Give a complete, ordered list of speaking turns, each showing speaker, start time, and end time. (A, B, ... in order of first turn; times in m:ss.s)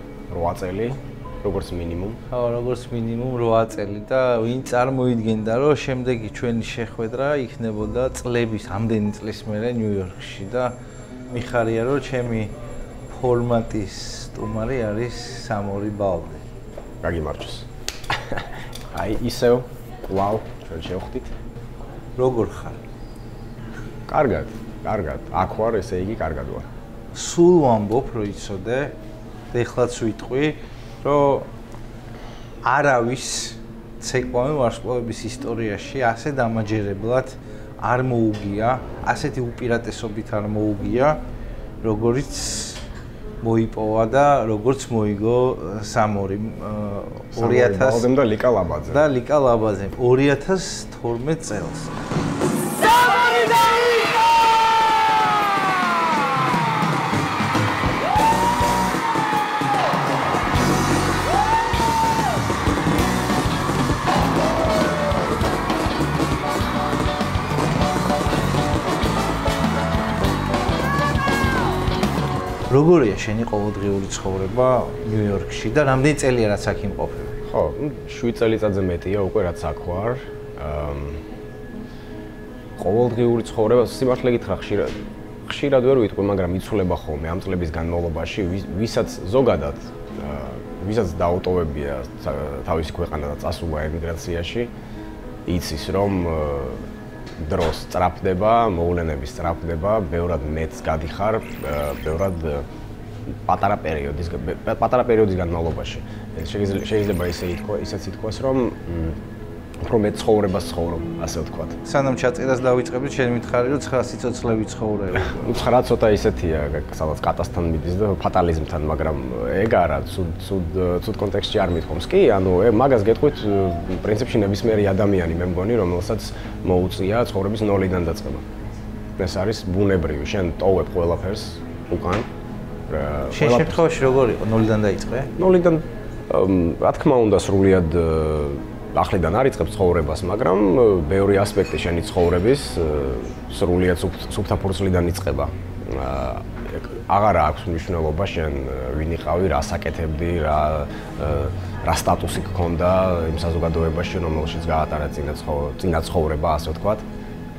0:00.3-0:02.2 A
0:02.3-0:10.7 B
0:11.3-0:12.5 B
0:13.1-0:16.4 B
0:17.0-0:21.3 A
0:22.2-0:22.8 B
0:24.1-0:26.7 A
0:27.1-0:29.0 B
0:29.5-0:31.5 B
0:32.6-0:41.2 B
0:41.8-0:42.8 B
0:43.4-0:48.1 B
0:47.3-0:49.1 A
0:48.9-0:51.9 B
1:12.7-1:17.3 B
1:17.5-1:21.2 A
1:22.8-1:34.7 A
1:35.4-1:42.6 A
1:43.3-1:49.2 A
1:49.8-1:51.8 A
1:51.8-1:55.6 B
1:55.2-2:08.4 A
2:09.2-2:12.3 A
2:12.9-2:13.8 A
2:13.3-2:15.3 B
2:15.4-2:37.0 A